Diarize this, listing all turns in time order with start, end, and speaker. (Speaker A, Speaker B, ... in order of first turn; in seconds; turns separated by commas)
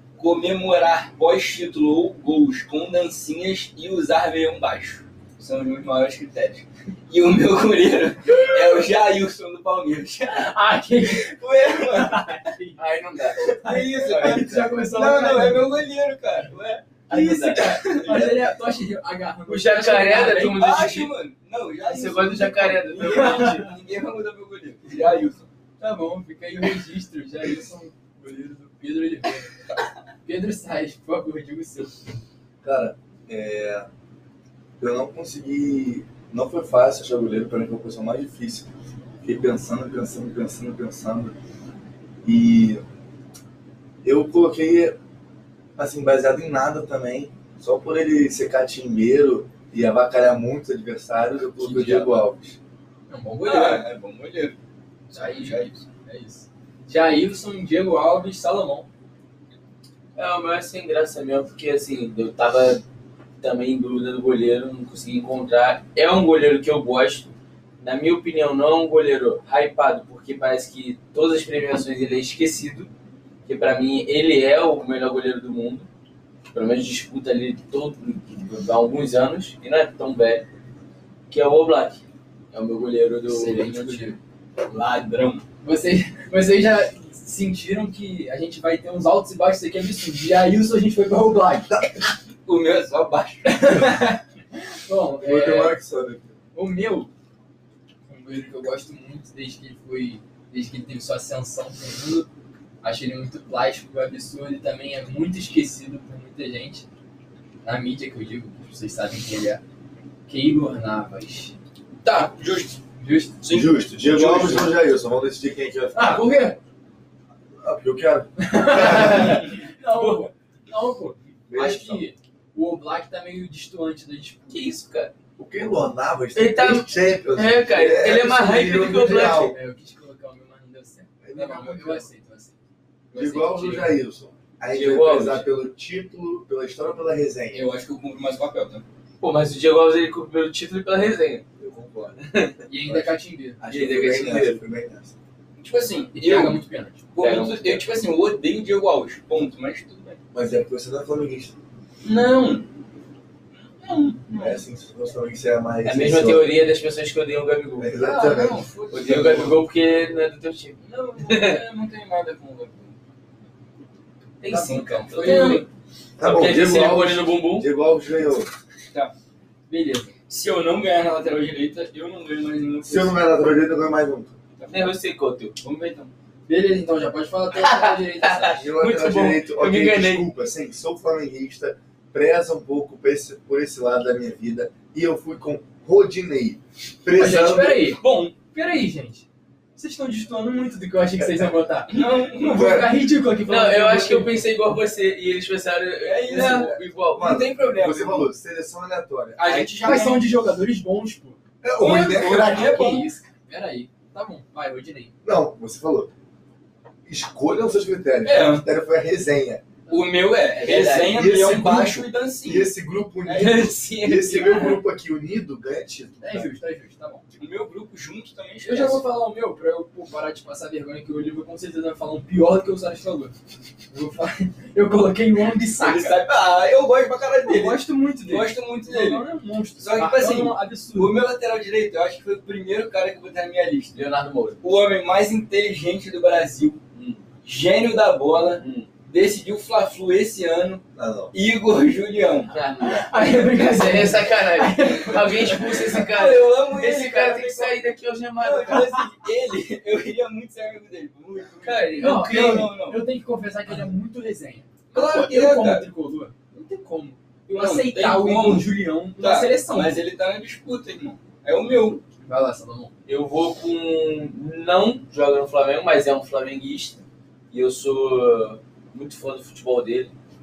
Speaker A: 0.2-12.4, Speaker B: 10.3-12.8, Speaker C: 12.8-13.6, Speaker B: 13.3-15.7, Speaker A: 13.5-18.5, Speaker C: 14.1-14.5, Speaker C: 17.1-17.8, Speaker B: 17.9-20.6, Speaker C: 19.5-21.1, Speaker A: 20.4-25.5, Speaker C: 21.8-23.7, Speaker B: 23.0-23.7, Speaker B: 25.8-29.5, Speaker B: 30.2-31.9, Speaker D: 32.6-33.9, Speaker D: 34.8-38.7, Speaker D: 39.2-41.3, Speaker D: 42.2-42.8, Speaker D: 44.0-45.0, Speaker D: 45.8-52.6, Speaker B: 51.6-52.2, Speaker B: 53.1-53.9, Speaker A: 53.4-54.6, Speaker B: 55.1-58.9, Speaker A: 55.1-55.8, Speaker C: 60.2-62.8, Speaker C: 63.4-67.3, Speaker C: 67.8-72.9, Speaker C: 73.5-75.9, Speaker C: 76.5-80.5, Speaker C: 81.3-84.0, Speaker B: 83.3-84.2, Speaker A: 83.4-85.4, Speaker B: 85.6-92.1, Speaker A: 92.5-93.7, Speaker B: 93.4-95.8, Speaker D: 95.2-96.3, Speaker B: 96.5-97.1, Speaker B: 98.1-102.3, Speaker B: 102.8-106.8, Speaker B: 107.6-109.6, Speaker B: 110.3-111.5, Speaker A: 112.0-112.8, Speaker B: 113.0-113.4, Speaker A: 113.4-114.8, Speaker D: 113.5-116.3, Speaker B: 115.9-116.6, Speaker D: 117.6-119.4, Speaker B: 118.4-124.6, Speaker C: 119.0-119.3, Speaker C: 119.9-120.3, Speaker D: 121.5-122.0, Speaker C: 124.5-125.1, Speaker D: 125.4-129.5, Speaker C: 126.3-129.5, Speaker B: 129.2-132.6, Speaker D: 131.2-132.1, Speaker B: 133.1-134.0, Speaker D: 133.1-137.7, Speaker C: 134.7-135.4, Speaker A: 137.5-138.8, Speaker C: 139.2-141.4, Speaker D: 141.6-142.2, Speaker C: 142.2-142.7, Speaker B: 142.7-143.6, Speaker D: 142.8-145.1, Speaker C: 143.7-144.6, Speaker A: 145.6-146.6, Speaker B: 146.1-147.0, Speaker A: 147.1-150.2, Speaker C: 147.2-147.8, Speaker D: 150.3-151.5, Speaker A: 152.0-152.7, Speaker A: 153.6-154.6, Speaker D: 154.3-156.5, Speaker C: 155.8-158.0, Speaker D: 157.8-158.6, Speaker A: 158.0-159.7, Speaker C: 158.9-161.6, Speaker A: 160.8-162.9, Speaker C: 164.4-165.6, Speaker B: 164.5-165.7, Speaker A: 165.1-165.7, Speaker D: 166.2-168.5, Speaker C: 166.2-167.7, Speaker B: 169.7-170.1, Speaker A: 170.3-173.3, Speaker D: 172.8-174.4, Speaker A: 174.6-174.9, Speaker C: 174.7-175.5, Speaker A: 175.6-176.1, Speaker B: 176.5-178.7, Speaker C: 177.6-180.2, Speaker D: 178.5-188.0, Speaker B: 187.1-194.3, Speaker A: 188.0-188.3, Speaker A: 191.9-192.8, Speaker D: 192.4-192.9, Speaker C: 193.5-197.4, Speaker A: 196.0-198.3, Speaker B: 196.3-196.6, Speaker D: 196.4-200.0, Speaker A: 199.4-200.3, Speaker B: 199.8-205.1, Speaker D: 201.6-202.8, Speaker A: 201.8-203.1, Speaker D: 205.2-206.1, Speaker D: 207.1-209.6, Speaker A: 208.2-208.7, Speaker A: 209.9-214.8, Speaker C: 210.6-211.3, Speaker D: 210.8-216.5, Speaker B: 216.2-217.2, Speaker A: 217.3-219.0, Speaker B: 218.6-223.3, Speaker B: 223.9-226.2, Speaker A: 225.8-229.3, Speaker B: 227.4-231.2, Speaker A: 229.8-234.0, Speaker C: 233.9-234.6, Speaker A: 234.6-236.8, Speaker C: 236.9-237.2, Speaker A: 237.4-240.8, Speaker C: 238.6-238.9, Speaker D: 240.9-241.3, Speaker A: 241.3-244.0, Speaker C: 242.5-248.9, Speaker B: 242.8-246.0, Speaker A: 245.6-253.0, Speaker C: 251.6-252.6, Speaker B: 252.0-260.0, Speaker A: 254.9-255.8, Speaker A: 257.5-262.0, Speaker B: 262.2-262.9, Speaker C: 263.1-270.1